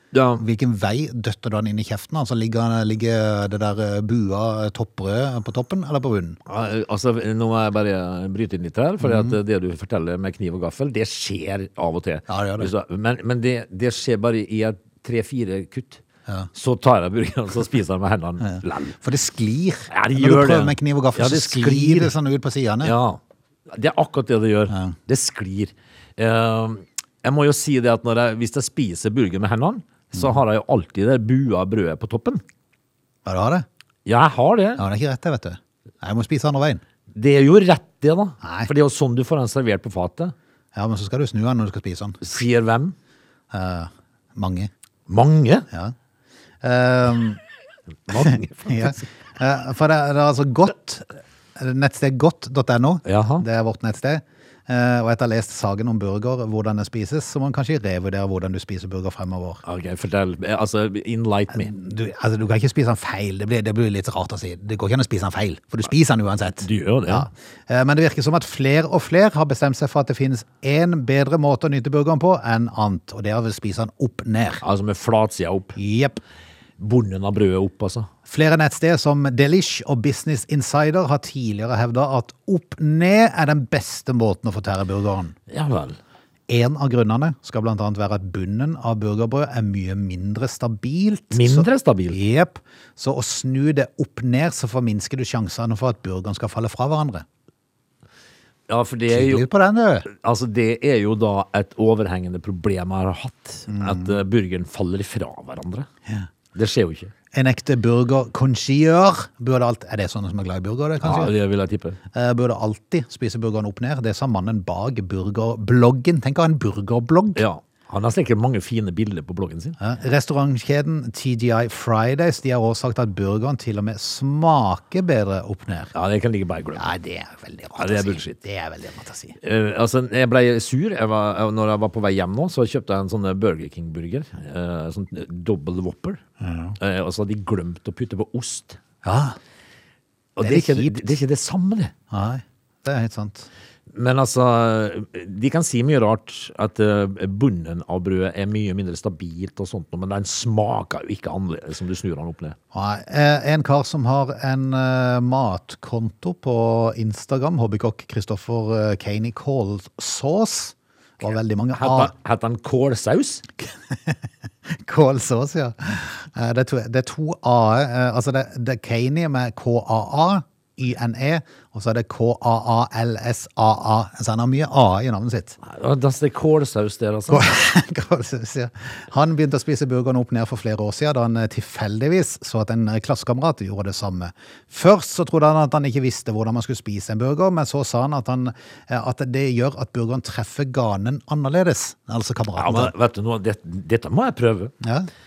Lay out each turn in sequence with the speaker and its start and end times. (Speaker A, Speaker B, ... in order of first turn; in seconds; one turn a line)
Speaker A: 0.1-0.4
Speaker B: 0.4-6.4
Speaker A: 6.5-16.0
Speaker B: 9.0-9.4
Speaker B: 12.3-12.7
Speaker A: 16.6-19.0
Speaker B: 18.4-22.9
Speaker A: 19.9-22.1
Speaker A: 22.8-32.4
Speaker B: 24.7-24.9
Speaker B: 33.3-33.7
Speaker A: 34.0-34.8
Speaker B: 34.8-36.8
Speaker A: 37.1-40.3
Speaker B: 38.4-38.7
Speaker B: 40.8-42.2
Speaker A: 42.2-43.0
Speaker B: 43.5-44.7
Speaker A: 45.1-45.7
Speaker B: 46.6-47.4
Speaker A: 48.1-49.0
Speaker B: 48.1-59.6
Speaker A: 53.1-53.5
Speaker A: 59.6-61.7
Speaker B: 61.6-74.6
Speaker A: 66.6-67.3
Speaker A: 74.6-75.8
Speaker B: 75.8-76.2
Speaker A: 76.8-78.1
Speaker B: 78.3-85.3
Speaker A: 85.5-86.0
Speaker B: 86.5-97.2
Speaker A: 91.3-92.2
Speaker A: 98.7-99.5
Speaker B: 99.1-100.1
Speaker A: 100.1-105.9
Speaker B: 103.7-104.2
Speaker A: 106.5-107.1
Speaker B: 107.3-111.3
Speaker A: 111.0-112.0
Speaker B: 112.1-117.4
Speaker A: 117.4-119.8
Speaker B: 119.8-125.9
Speaker A: 125.9-126.9
Speaker B: 126.8-129.4
Speaker A: 127.8-128.4
Speaker A: 129.4-136.2
Speaker B: 136.4-136.8
Speaker A: 136.8-138.8
Speaker B: 139.0-139.4
Speaker A: 140.4-141.9
Speaker B: 140.4-141.1
Speaker B: 142.1-143.5
Speaker A: 143.9-152.6
Speaker B: 152.7-162.1
Speaker A: 161.8-163.4
Speaker B: 163.6-175.6
Speaker A: 175.6-177.6
Speaker B: 177.3-192.9
Speaker A: 192.6-194.7
Speaker B: 194.8-195.1